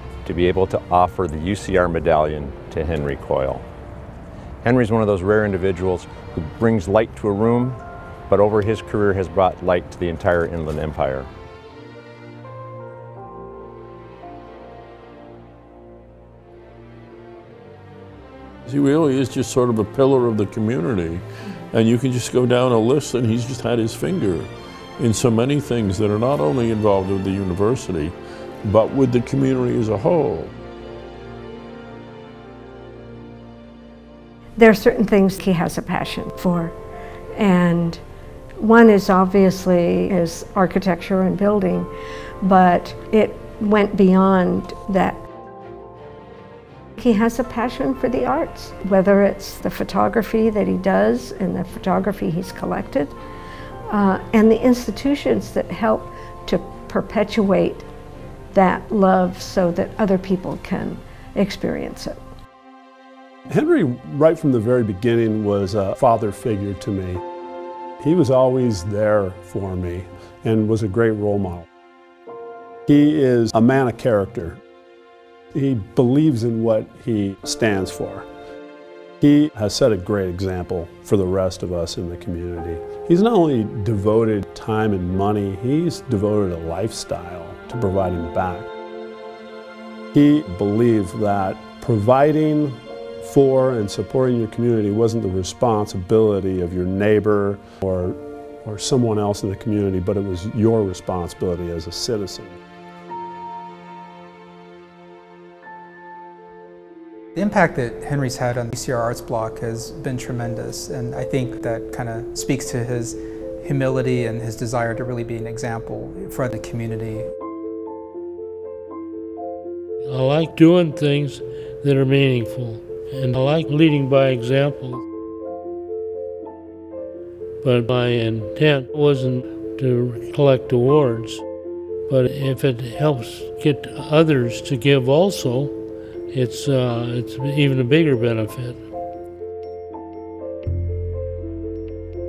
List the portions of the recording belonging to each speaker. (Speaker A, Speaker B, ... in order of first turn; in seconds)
Speaker A: 0.2-3.6, 4.6-11.3
Speaker B: 18.6-30.5
Speaker C: 34.6-36.7, 37.4-38.0, 38.6-41.9, 42.4-45.2, 47.0-53.1, 53.9-57.9, 58.5-62.2
Speaker D: 63.5-67.2, 68.0-71.7, 72.9-74.6, 75.5-78.3, 79.2-88.7, 90.1-102.5
Speaker E: 107.3-117.3
Speaker F: 120.0-125.0, 127.6-131.4, 132.1-135.7, 136.3-138.8